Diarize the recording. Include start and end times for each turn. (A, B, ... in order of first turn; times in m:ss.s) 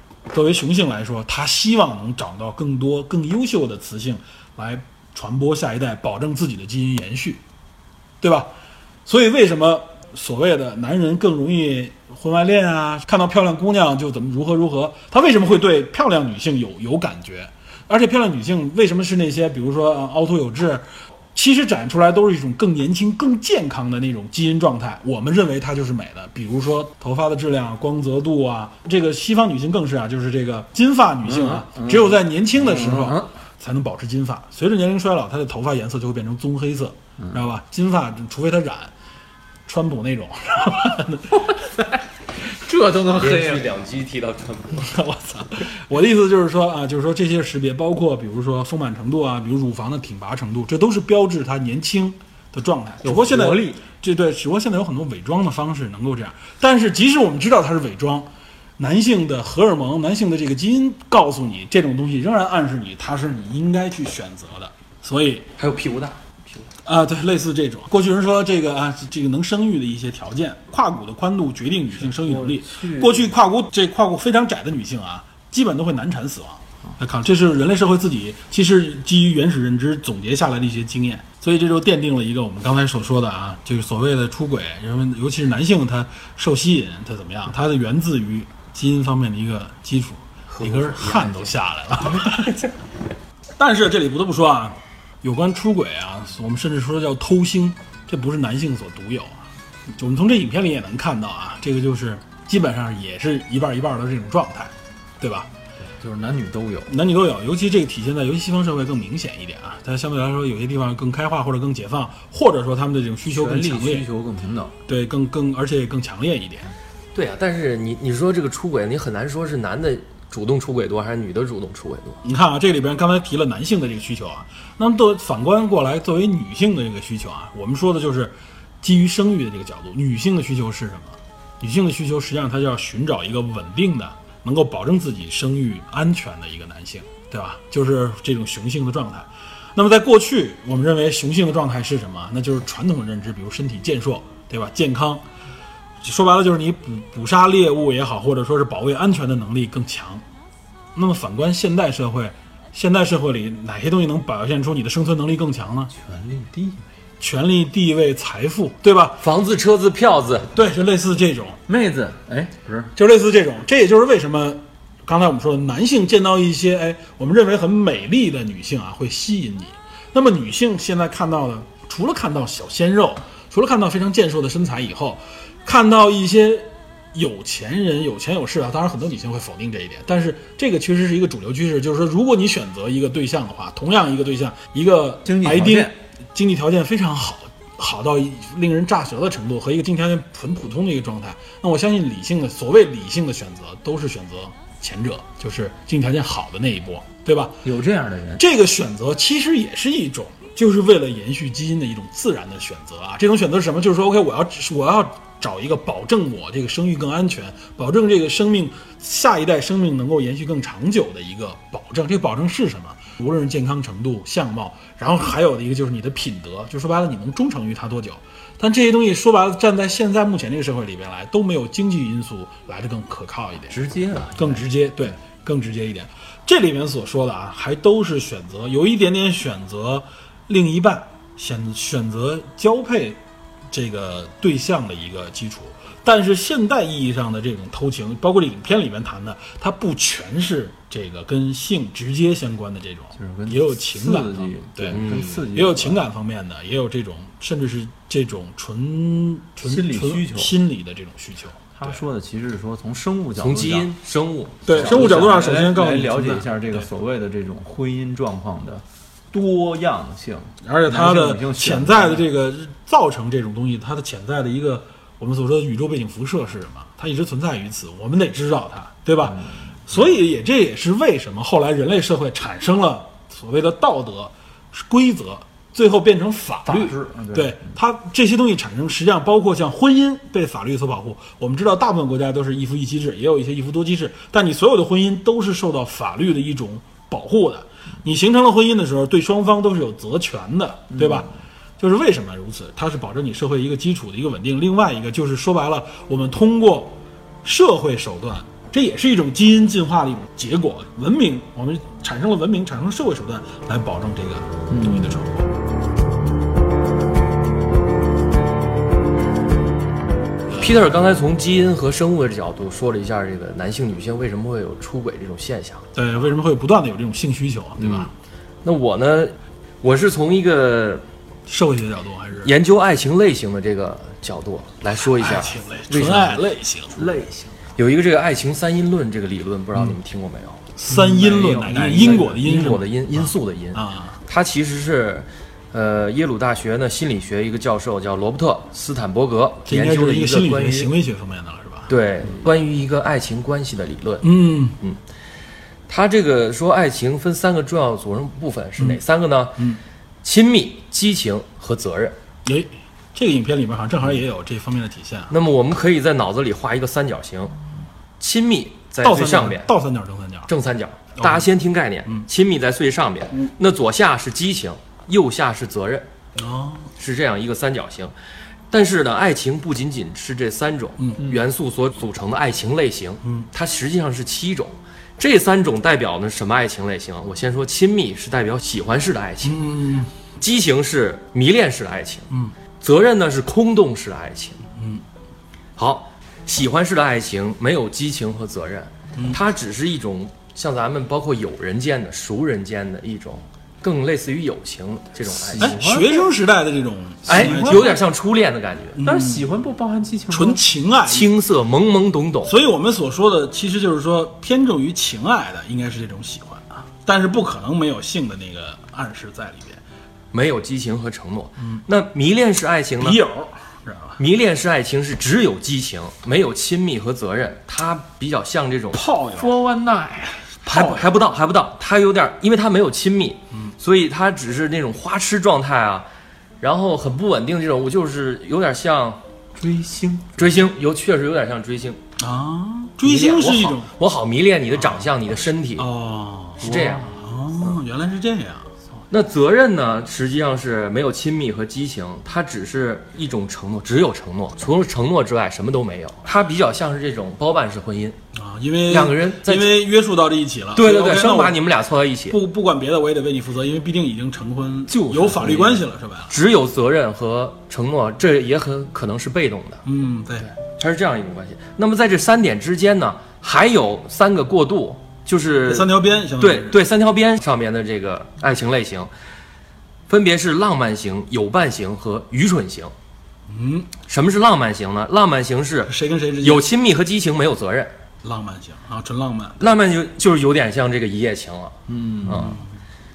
0:00.3-0:07.4 A
0:08.2-0:08.5 A
0:09.0-0:38.9 A
0:31.2-0:33.3 B
0:39.7-0:41.5 A
0:41.5-0:43.7 B
0:43.1-0:44.9 C
0:44.8-1:05.5 A
0:53.0-0:53.8 B
1:05.6-1:06.6 C
1:06.8-1:32.6 A
1:12.0-1:13.3 B
1:30.5-1:31.5 C
1:32.1-1:32.7 C
1:33.6-1:45.5 A
1:46.0-1:46.9 B
1:46.9-1:54.0 A
1:53.2-1:54.7 B
1:54.9-1:56.7 A
1:57.1-2:02.2 C
2:02.2-2:25.2 A
2:26.0-2:30.2 A
2:30.9-2:35.9 A
2:35.9-2:36.8 B
2:37.2-2:39.2 A
2:39.2-2:40.5 C
2:40.5-2:41.6 A
2:41.7-2:42.9 B
2:42.9-3:17.6 A
3:05.2-3:05.9 B
3:17.6-3:18.4 B
3:18.4-3:43.8 A
3:43.7-3:44.6 B
3:44.4-3:53.2 A
3:53.7-4:12.0 A
4:03.1-4:06.0 B
4:04.9-4:05.4 C
4:09.6-4:10.5 B
4:11.8-4:13.9 B
4:13.4-4:15.2 C
4:14.6-4:16.8 A
4:14.7-4:22.2 B
4:20.6-5:05.4 A
4:29.2-4:29.9 B
4:36.6-4:37.6 B
4:51.0-4:51.2 B
5:04.7-5:05.2 B
5:10.6-5:15.9 C
5:15.9-5:18.1 A
5:18.6-5:21.0 C
5:21.5-5:22.5 A
5:22.4-5:26.4 C
5:25.0-5:27.1 A
5:26.9-5:27.6 B
5:27.8-5:30.7 C
5:30.8-5:34.2 A
5:30.9-5:32.6 B
5:31.8-5:40.9 C
5:39.6-5:41.9 A
5:41.9-5:44.3 C
5:44.2-5:44.8 A
5:45.9-5:49.6 C
5:50.2-5:52.2 C
5:52.4-5:55.3 A
5:55.3-5:57.5 C
5:58.2-5:59.7 C
5:59.0-6:00.5 A
6:00.5-6:06.1 C
6:01.2-6:01.5 A
6:06.4-6:06.9 A
6:07.0-6:08.1 C
6:08.7-6:19.7 C
6:19.4-6:20.1 A
6:20.4-6:22.3 C
6:22.8-6:24.6 C
6:24.7-6:25.0 A
6:25.8-6:35.8 C
6:35.3-6:36.3 B
6:35.6-6:38.0 A
6:37.3-6:38.0 B
6:37.3-6:39.0 C
6:38.9-6:39.4 A
6:39.0-6:40.6 B
6:40.3-6:41.3 A
6:41.1-6:42.5 C
6:42.4-6:49.8 A
6:50.3-6:53.2 C
6:53.0-6:54.2 A
6:54.2-6:59.0 C
6:58.9-6:59.5 A
6:59.3-7:00.5 B
7:00.6-7:06.1 C
7:00.6-7:01.1 A
7:06.6-7:09.2 C
7:09.6-7:10.6 B
7:10.4-7:12.0 C
7:12.2-7:13.9 A
7:13.0-7:15.9 C
7:14.8-7:15.0 A
7:15.8-7:18.8 A
7:16.6-7:17.1 C
7:16.7-7:17.0 B
7:19.1-7:28.2 C
7:28.3-7:31.6 A
7:28.9-7:29.8 C
7:30.7-7:32.4 C
7:32.3-7:36.3 A
7:34.9-7:35.8 B
7:36.3-7:39.8 C
7:39.8-7:40.5 A
7:40.5-7:49.1 C
7:45.6-7:46.8 A
7:50.1-7:52.9 C
7:53.5-7:53.9 A
7:54.1-7:57.9 C
7:55.9-7:56.6 A
7:58.2-7:59.7 A
7:59.6-8:02.6 C
8:01.9-8:02.5 B
8:02.2-8:02.7 A